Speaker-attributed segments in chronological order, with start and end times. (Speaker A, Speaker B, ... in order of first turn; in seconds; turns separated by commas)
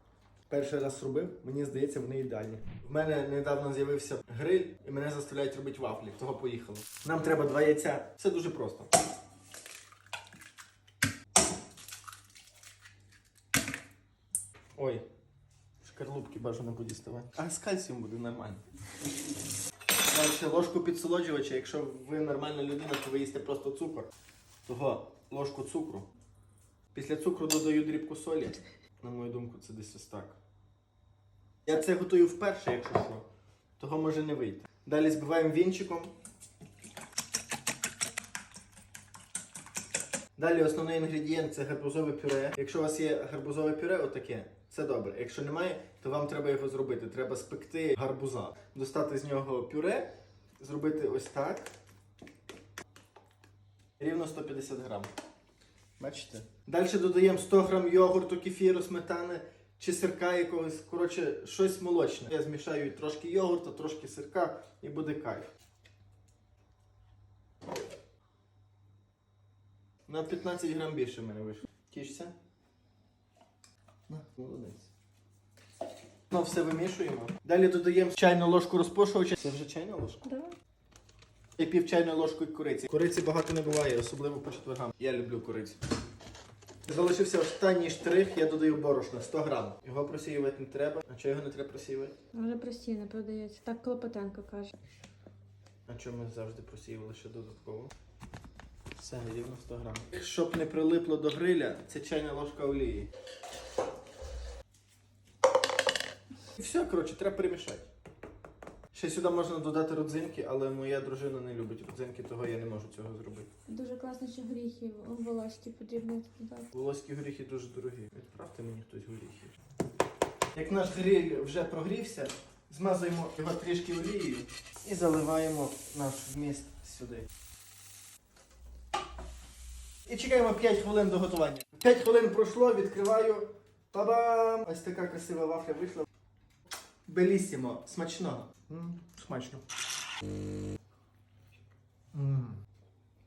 Speaker A: 0.5-8.9, Speaker A: 14.8-15.1, Speaker A: 15.8-18.6, Speaker A: 20.1-24.1, Speaker A: 24.6-26.1, Speaker A: 26.9-30.4, Speaker A: 31.6-33.2, Speaker A: 33.8-36.1, Speaker A: 40.4-51.7, Speaker A: 54.0-55.1, Speaker A: 56.0-65.5, Speaker A: 70.1-72.3, Speaker A: 74.1-74.9, Speaker A: 76.3-80.2, Speaker B: 80.2-80.5, Speaker A: 81.6-85.8, Speaker A: 86.8-92.1, Speaker B: 92.3-94.7, Speaker A: 95.9-97.9, Speaker A: 99.0-103.1, Speaker A: 106.5-107.9, Speaker A: 108.9-113.5, Speaker B: 113.7-116.7, Speaker A: 116.7-119.5, Speaker A: 120.5-127.3, Speaker A: 130.1-136.1, Speaker A: 137.1-139.6, Speaker A: 142.1-142.6